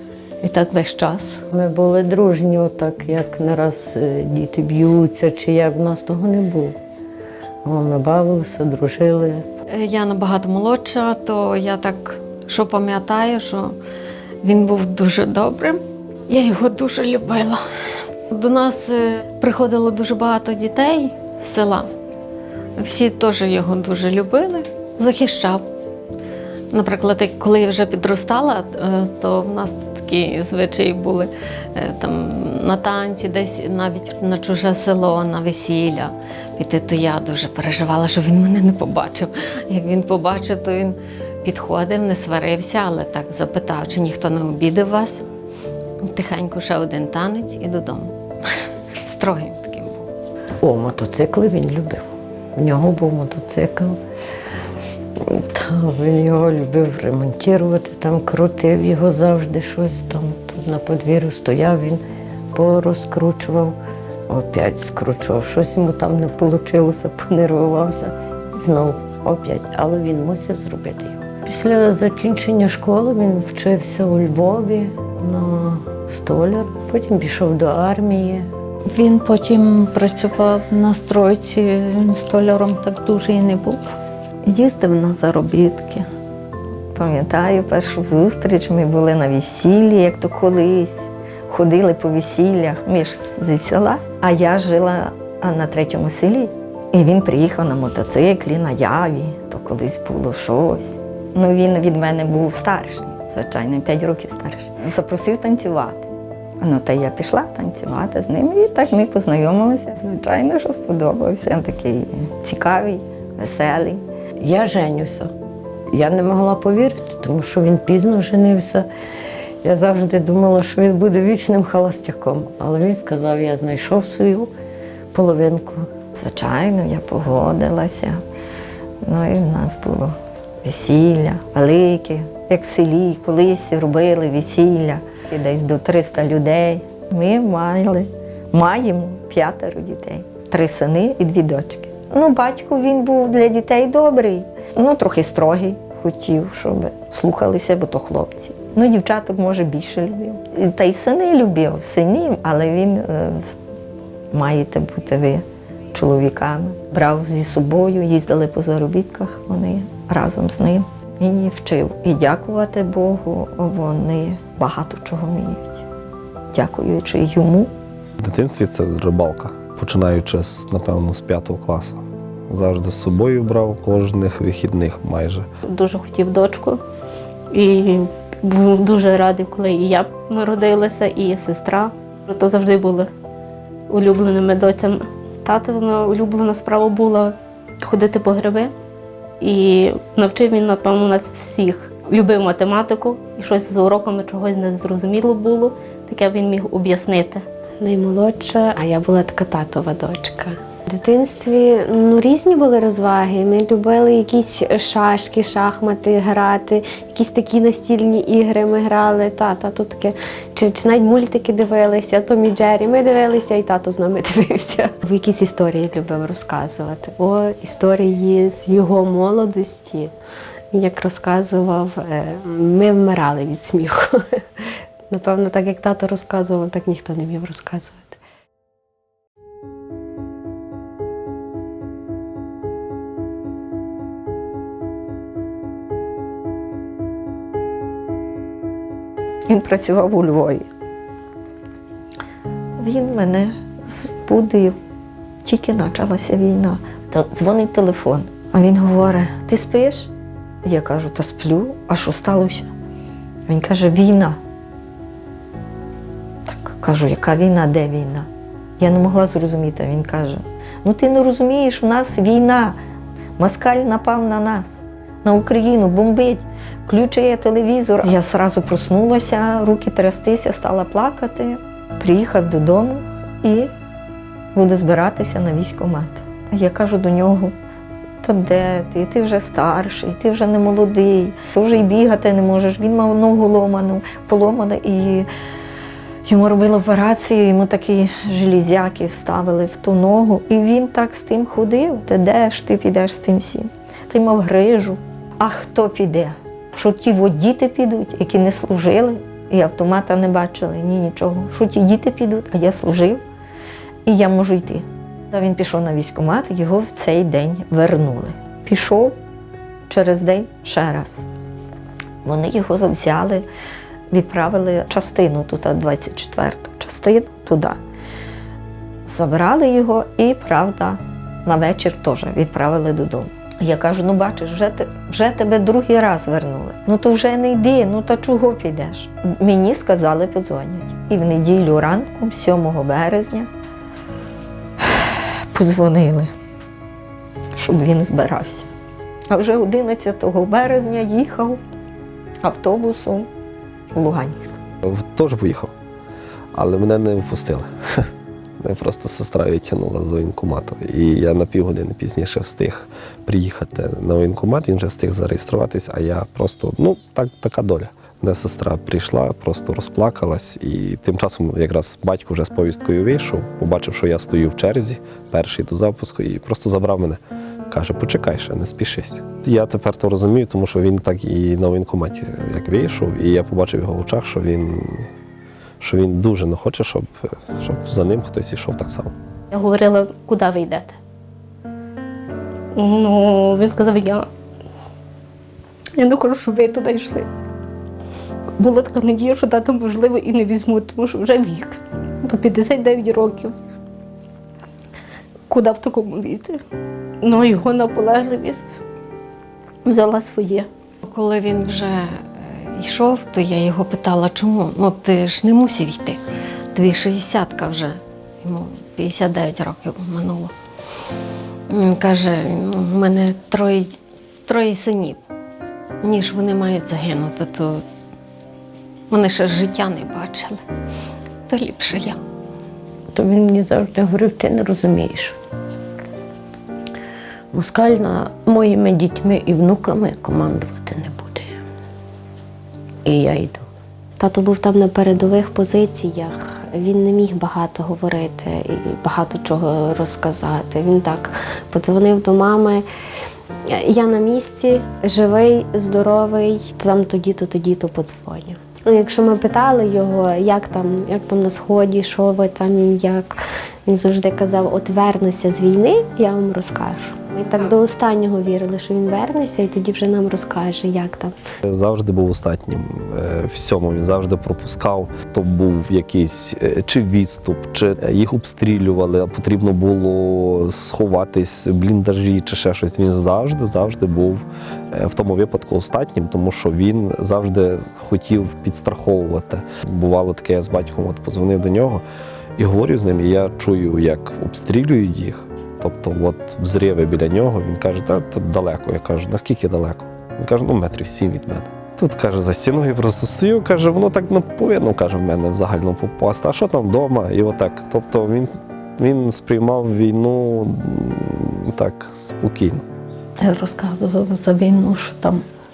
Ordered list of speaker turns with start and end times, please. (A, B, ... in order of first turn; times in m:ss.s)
0:00.4-0:01.4 A
0:01.5-0:06.8 B
0:07.6-0:09.5 B
0:09.7-0:13.8 C
0:14.4-0:17.6 C
0:18.3-0:21.9 C
0:22.8-0:25.6 C
0:26.7-0:45.2 C
0:46.0-0:48.2 C
0:49.0-0:50.1 C
0:50.6-0:54.0 B
0:55.2-1:02.0 B
1:02.5-1:03.8 B
1:04.3-1:18.5 B
1:18.8-1:26.1 A
1:26.9-1:46.1 D
1:46.6-1:54.0 D
1:54.4-1:55.3 B
1:55.9-1:58.9 B
1:59.6-2:04.5 B
2:05.1-2:05.9 B
2:06.2-2:08.2 D
2:09.0-2:33.6 D
2:34.3-2:45.8 D
2:46.5-2:47.7 D
2:48.2-2:55.5 E
2:55.6-2:56.8 F
2:57.5-3:03.1 F
3:03.9-3:08.7 F
3:09.4-3:17.4 F
3:17.8-3:40.1 G
3:40.7-3:48.2 G
3:59.5-4:00.7 D
4:02.8-4:04.8 D
4:05.4-4:10.1 D
4:10.6-4:12.7 D
4:13.5-4:14.4 D
4:16.4-4:22.8 D
4:23.4-4:33.7 D
4:34.5-4:37.6 D
4:38.2-4:45.3 D
4:46.2-5:03.2 D
5:04.1-5:09.1 D
5:09.9-5:11.2 D
5:12.2-5:13.4 D
5:14.1-5:17.8 D
5:19.0-5:33.5 D
5:34.9-5:36.3 D
5:37.6-5:38.7 D
5:39.3-5:41.6 D
5:42.4-5:43.3 D
5:43.9-5:44.6 D
5:44.8-5:45.7 E
5:46.5-5:48.1 E
5:48.6-6:15.1 E
6:15.8-6:19.1 E
6:19.5-6:21.0 F
6:22.7-6:24.3 F
6:26.0-6:27.3 F
6:28.6-6:33.5 F
6:35.5-6:36.6 F
6:37.2-6:38.8 F
6:39.8-6:40.7 F
6:41.0-6:46.2 C
6:46.7-6:50.5 C
6:51.7-6:55.2 C
6:56.0-6:57.8 C
6:59.1-7:00.6 C
7:01.5-7:02.2 C
7:03.1-7:05.4 B
7:07.5-7:11.6 B
7:13.0-7:13.6 B
7:14.2-7:22.9 G
7:23.6-7:41.3 G
7:41.6-8:02.0 E
8:02.6-8:22.8 E
8:23.4-8:25.4 A